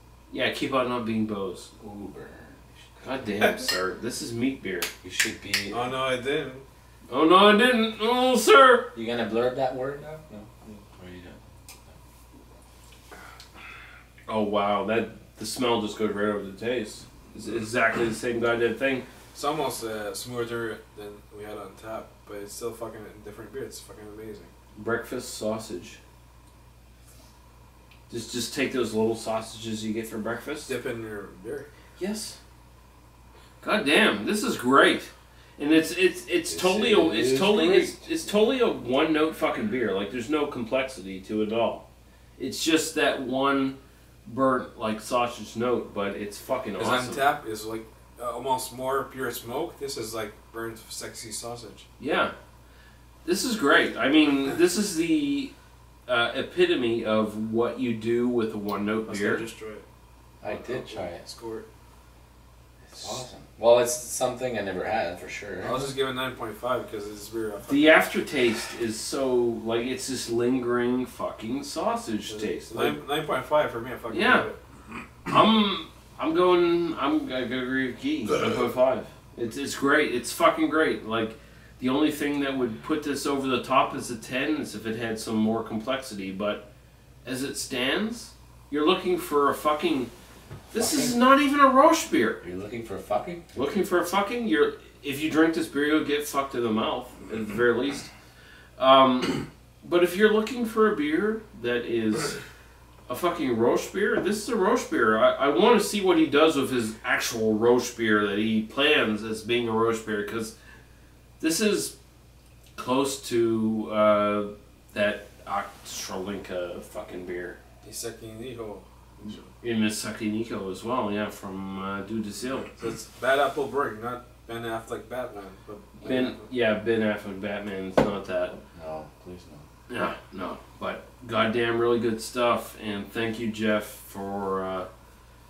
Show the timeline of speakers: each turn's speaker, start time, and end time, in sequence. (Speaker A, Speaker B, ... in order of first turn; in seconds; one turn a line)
Speaker A: 0.3-1.7
Speaker B: 1.8-2.7
Speaker A: 3.0-4.9
Speaker B: 5.0-5.8
Speaker C: 5.7-6.6
Speaker A: 7.1-8.9
Speaker B: 8.9-11.4
Speaker A: 14.3-19.1
Speaker C: 19.3-24.5
Speaker A: 24.8-26.0
Speaker A: 28.1-30.7
Speaker C: 30.6-31.7
Speaker A: 32.0-32.4
Speaker A: 33.6-41.8
Speaker B: 36.5-38.1
Speaker A: 42.4-47.2
Speaker C: 46.8-51.9
Speaker A: 52.0-52.3
Speaker A: 53.2-55.5
Speaker A: 56.1-59.5
Speaker C: 59.0-59.9
Speaker B: 60.4-61.2
Speaker C: 60.4-61.7
Speaker B: 62.9-65.8
Speaker A: 63.0-63.2
Speaker C: 65.6-68.1
Speaker A: 67.7-73.0
Speaker C: 72.3-74.5
Speaker A: 74.1-74.5
Speaker A: 75.3-86.7
Speaker A: 87.2-90.1
Speaker B: 90.7-91.2
Speaker A: 90.7-92.4
Speaker B: 92.4-93.5
Speaker A: 93.5-98.1
Speaker A: 98.8-102.4
Speaker A: 103.1-110.5
Speaker A: 111.4-112.0
Speaker A: 112.8-117.6
Speaker C: 117.8-119.5
Speaker A: 119.3-122.7
Speaker C: 122.7-126.5
Speaker A: 126.0-128.6
Speaker B: 128.7-129.6
Speaker A: 129.9-134.9